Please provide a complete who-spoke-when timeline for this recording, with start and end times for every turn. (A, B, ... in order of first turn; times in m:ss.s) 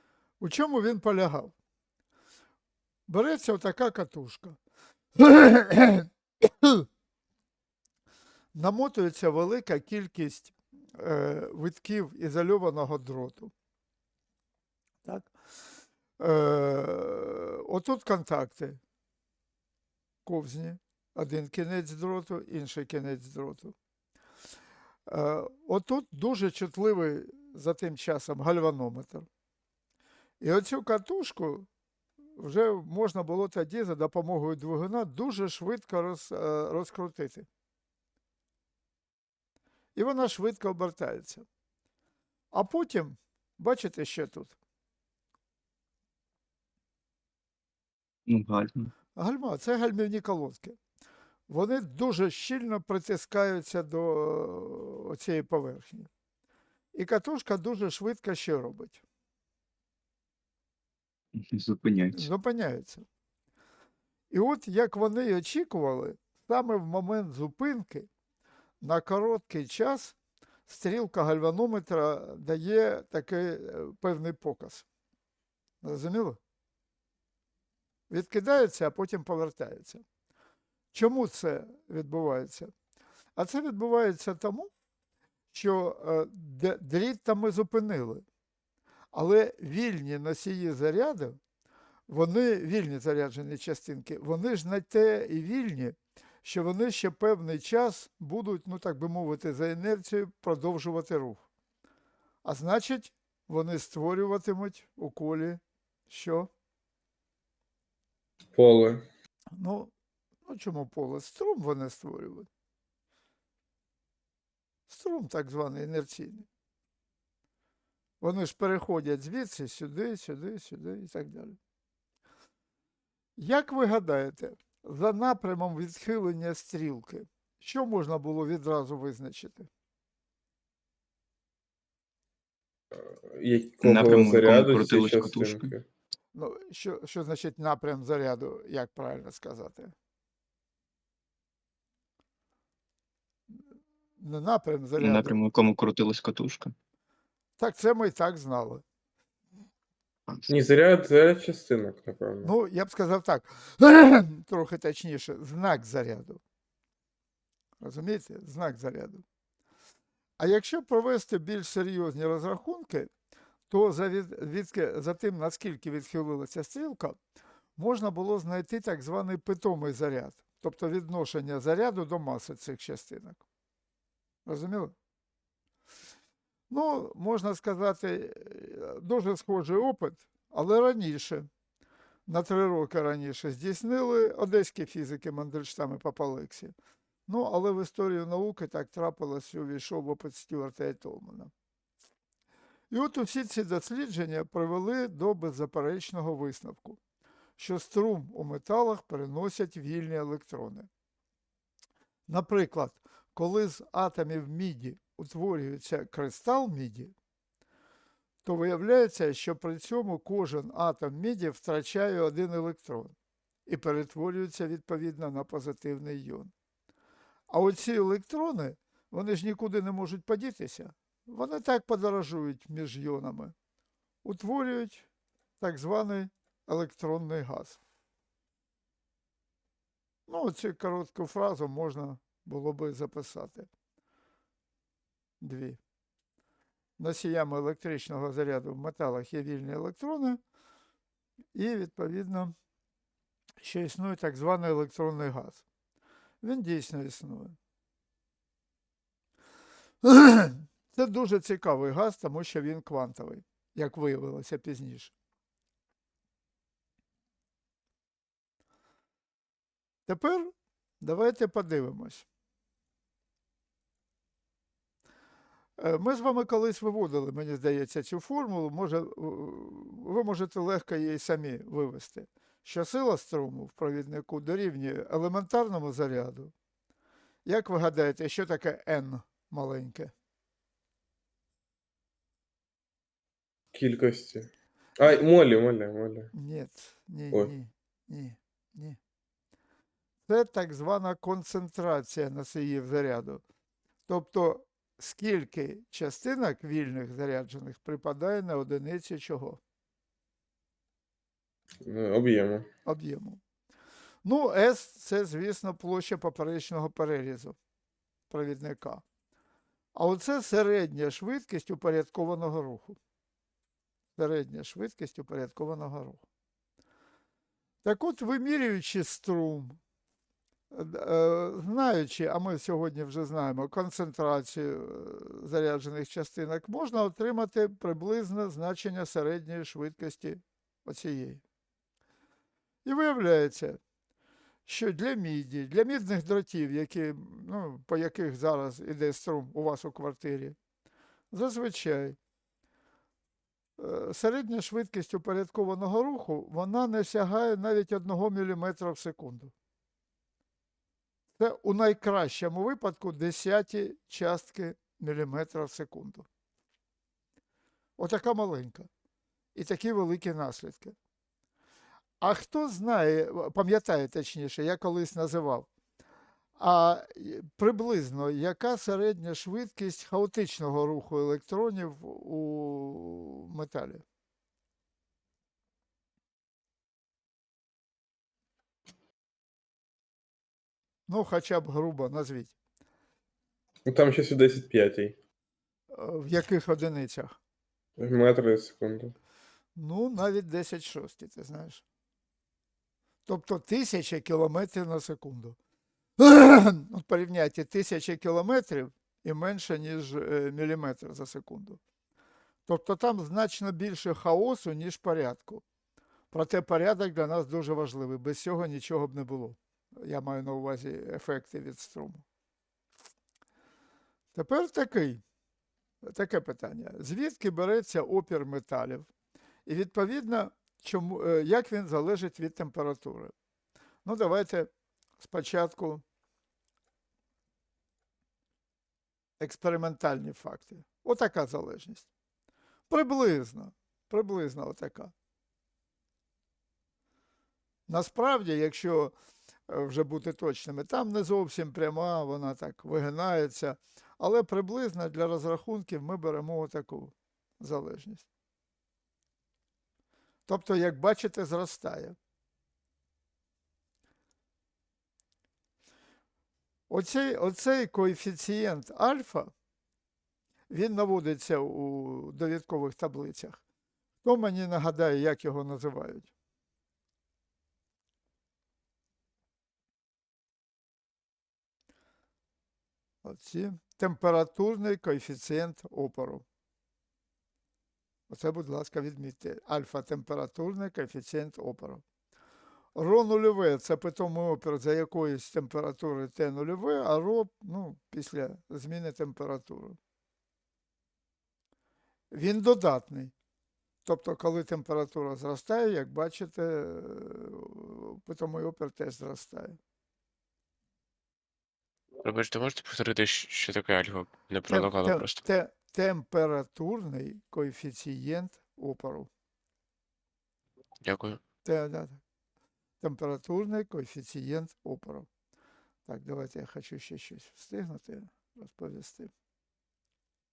0:00.4-0:01.5 A
0:03.1-0:04.6 A
0:05.2-0:06.8 A
0:08.5-0:13.5 A
0:15.0-0:15.3 A
0:16.2-0:18.8 A
0:20.2-0:23.7 A
0:25.1-0:29.3 A
0:30.4-0:31.7 A
0:32.4-0:37.5 A
0:40.0-0:41.5 A
0:42.5-0:44.5 A
0:48.3-0:48.9 B
0:49.2-0:50.8 A
0:51.5-0:56.1 A
0:56.9-0:59.0 A
1:01.4-1:02.3 B
1:02.1-1:03.1 A
1:04.3-1:08.1 A
1:08.8-1:10.2 A
1:10.7-1:14.9 A
1:15.8-1:16.4 A
1:18.1-1:20.0 A
1:20.9-1:22.7 A
1:23.4-1:24.7 A
1:25.5-1:28.2 A
1:29.1-1:31.4 A
1:32.1-1:41.4 A
1:42.4-1:46.5 A
1:48.6-1:49.0 C
1:49.6-1:49.9 A
1:50.4-1:52.5 A
1:54.9-1:56.5 A
1:58.2-2:01.6 A
2:03.4-2:09.7 A
2:13.0-2:15.8 C
2:13.8-2:15.7 B
2:16.3-2:19.9 A
2:24.2-2:25.4 A
2:25.0-2:26.7 B
2:27.6-2:28.8 A
2:30.5-2:32.5 C
2:32.4-2:36.4 A
2:37.8-2:39.2 A
2:40.4-2:43.1 A
2:43.7-2:47.2 A
2:47.8-2:53.4 A
2:54.4-2:55.0 A
2:56.7-3:01.5 A
3:02.3-3:06.7 A
3:07.3-3:11.5 A
3:12.9-3:17.0 A
3:17.6-3:20.9 A
3:22.3-3:27.1 A
3:28.4-3:33.1 A
3:33.7-3:36.5 A
3:37.5-3:43.5 A
3:44.2-3:45.1 A
3:45.6-3:47.8 A
3:50.3-3:53.7 A
3:55.4-3:55.8 A
3:57.0-4:00.4 A
4:01.5-4:02.5 A
4:03.6-4:05.6 A
4:06.4-4:07.6 A
4:10.0-4:15.1 A
4:20.1-4:22.3 A
4:25.8-4:36.5 A
4:37.4-4:40.1 A
4:43.7-4:46.3 C
4:46.3-4:49.0 A
4:50.3-4:53.4 A
4:54.1-4:59.6 A
5:01.8-5:02.7 C
5:02.8-5:03.4 A
5:04.2-5:07.6 A
5:08.3-5:09.0 A
5:09.9-5:13.0 A
5:14.2-5:16.2 A
5:17.8-5:19.8 A
5:20.7-5:31.4 A
5:32.8-5:33.8 A
5:34.7-5:40.6 A
5:41.3-5:42.2 A
5:43.8-5:49.5 A
5:51.4-5:56.3 A
5:58.0-5:58.9 A
5:59.6-6:01.0 A
6:02.2-6:05.7 A
6:06.6-6:14.0 A
6:21.1-6:22.5 A
6:23.8-6:25.2 C
6:25.9-6:27.4 A
6:28.0-6:29.2 C
6:29.8-6:31.8 A
6:33.3-6:35.6 A
6:36.2-6:41.8 A
6:42.7-6:45.6 A
6:46.3-6:52.2 A
6:54.3-6:55.2 A
6:56.0-6:59.1 A
6:59.7-7:03.3 A
7:04.0-7:06.0 A
7:09.4-7:12.1 A
7:12.9-7:15.1 A
7:17.9-7:19.1 A
7:19.7-7:28.3 A
7:30.5-7:32.2 A
7:36.9-7:39.5 A
7:40.7-7:43.6 A
7:44.2-7:46.3 A
7:53.2-7:56.4 A
7:58.3-8:02.0 A
8:03.0-8:10.0 A
8:12.3-8:13.3 A
8:14.0-8:19.8 A
8:22.2-8:25.4 D
8:24.7-8:29.3 A
8:31.0-8:31.4 D
8:31.6-8:32.2 A
8:33.0-8:35.3 A
8:36.1-8:39.3 A